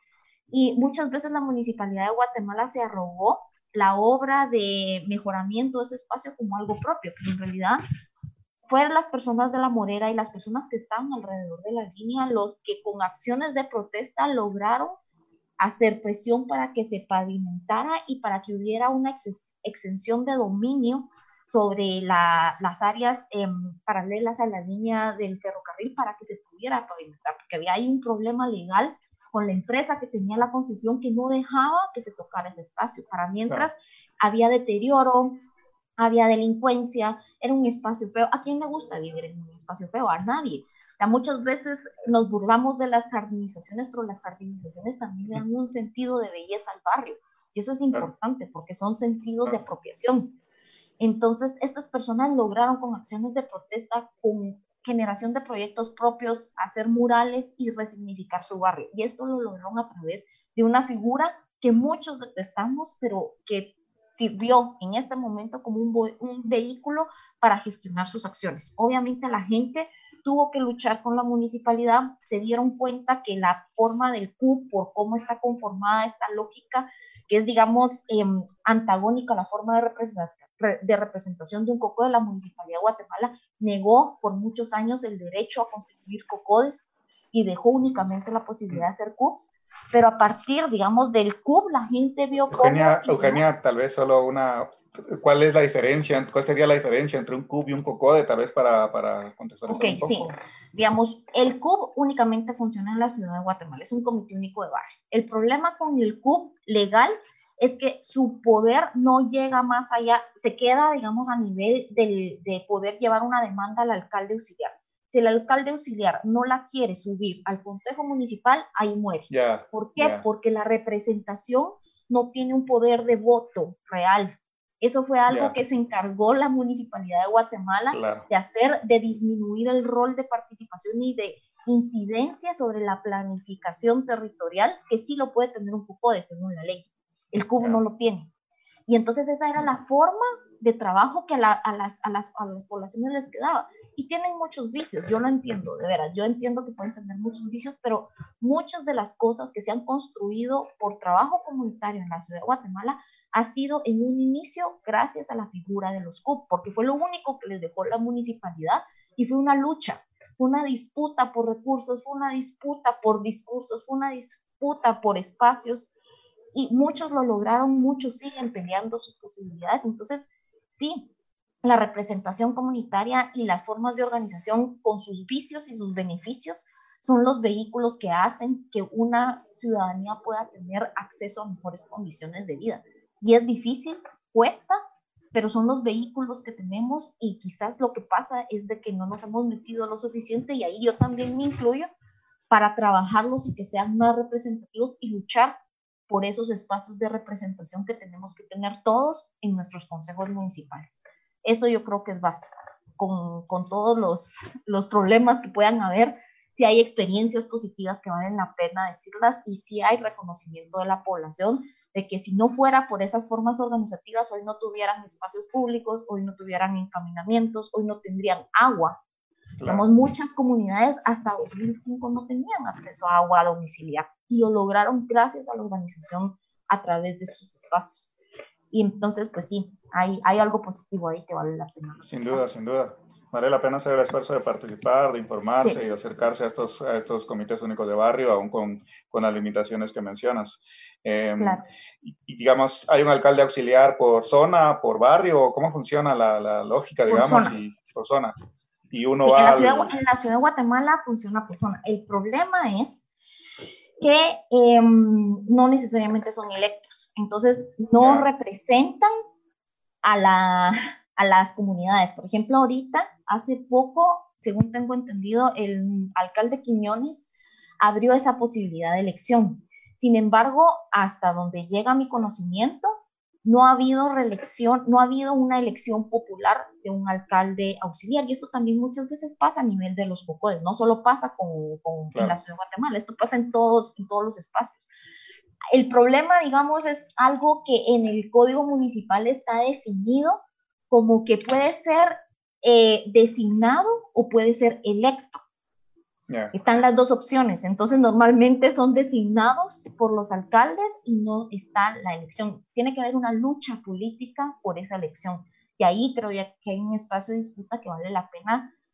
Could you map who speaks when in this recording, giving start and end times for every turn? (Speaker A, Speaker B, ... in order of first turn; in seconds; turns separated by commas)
Speaker A: 0.5-7.8, Speaker A: 8.7-15.0, Speaker A: 15.6-35.4, Speaker A: 36.0-50.4, Speaker A: 51.0-93.4, Speaker B: 92.5-100.3, Speaker A: 99.7-138.3, Speaker B: 119.3-120.2, Speaker B: 125.3-125.6, Speaker B: 127.9-128.3, Speaker A: 138.9-165.9, Speaker A: 166.5-171.1, Speaker A: 171.6-184.8, Speaker A: 185.3-191.9, Speaker A: 192.5-195.6, Speaker A: 196.1-219.0, Speaker B: 219.6-219.8, Speaker A: 219.7-228.1, Speaker A: 228.7-232.4, Speaker B: 232.1-248.4, Speaker A: 241.4-241.6, Speaker A: 247.1-247.6, Speaker B: 248.9-249.9, Speaker A: 249.2-253.1, Speaker A: 254.0-259.1, Speaker B: 258.0-258.3, Speaker A: 260.0-267.3, Speaker A: 267.8-284.9, Speaker A: 285.7-290.4, Speaker A: 290.9-295.4, Speaker B: 296.3-296.6, Speaker A: 296.5-308.7